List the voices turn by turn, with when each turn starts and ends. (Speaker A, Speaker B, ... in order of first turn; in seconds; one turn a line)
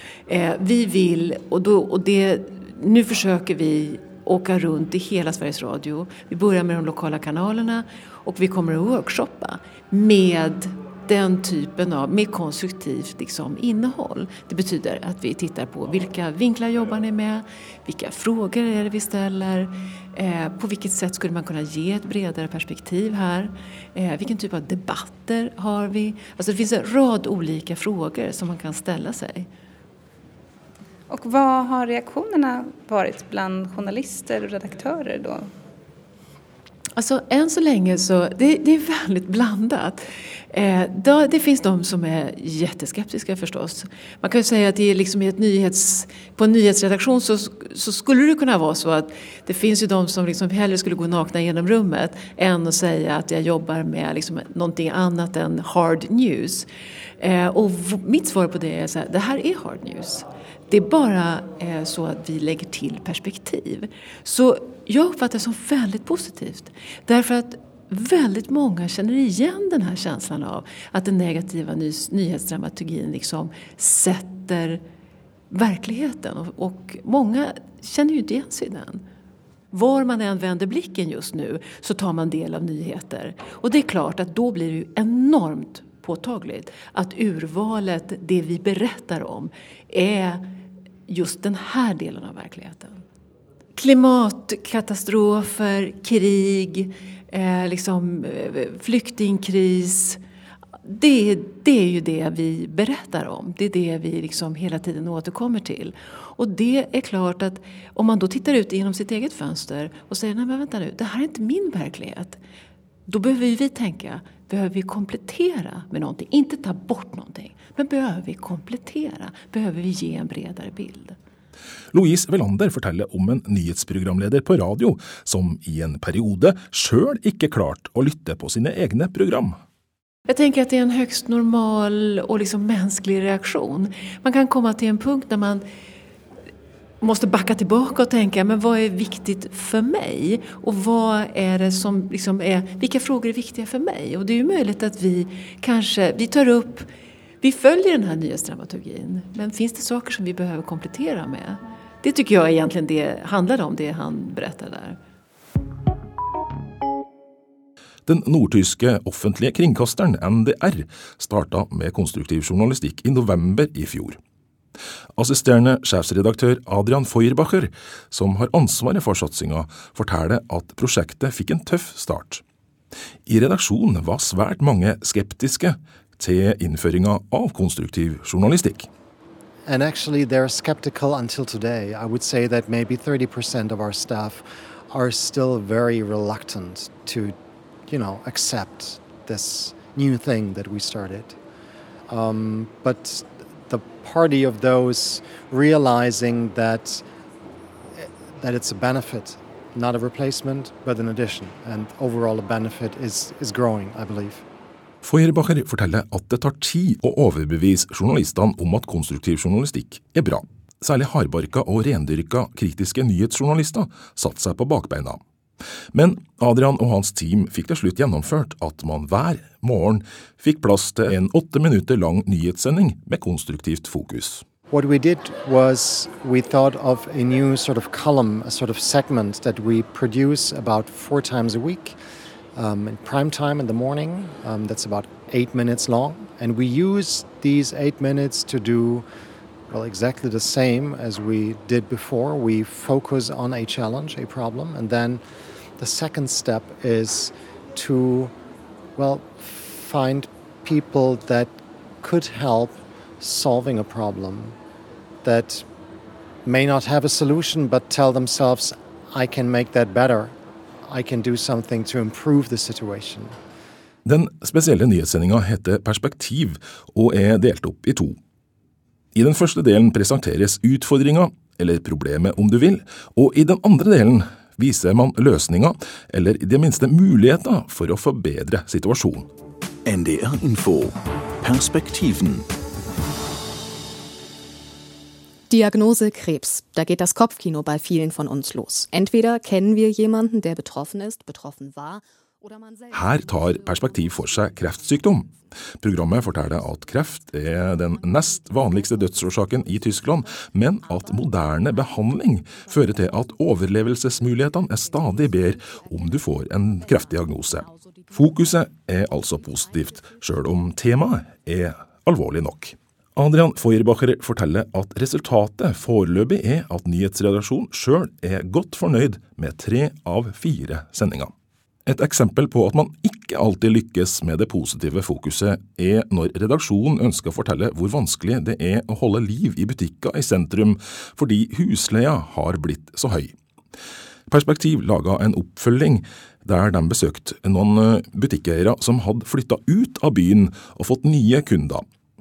Speaker A: 0.3-29.5
Speaker B: 31.1-35.5
Speaker A: 37.0-56.7
Speaker A: 57.2-74.8
Speaker A: 75.5-79.0
Speaker A: 79.7-90.4
Speaker A: 91.1-93.0
Speaker A: 93.8-100.2
Speaker A: 100.8-112.4
Speaker A: 113.1-121.2
Speaker C: 121.9-129.6
Speaker A: 130.3-135.6
Speaker A: 137.0-146.9
Speaker A: 147.4-155.0
Speaker C: 158.1-164.2
Speaker C: 165.2-172.4
Speaker C: 173.2-178.9
Speaker D: 179.7-187.3
Speaker D: 187.9-191.4
Speaker D: 192.1-197.0
Speaker D: 197.9-204.4
Speaker C: 205.0-215.2
Speaker C: 215.9-224.4
Speaker D: 224.7-232.0
Speaker D: 232.5-239.0
Speaker D: 239.7-245.2
Speaker D: 245.8-248.3
Speaker D: 248.9-254.6
Speaker D: 255.2-255.7
Speaker D: 256.4-263.4
Speaker C: 264.0-268.2
Speaker C: 269.1-279.3
Speaker E: 279.9-282.5
Speaker F: 285.5-295.3
Speaker C: 292.9-295.3
Speaker C: 295.8-321.3
Speaker F: 297.8-310.5
Speaker C: 321.9-333.3
Speaker C: 334.3-341.8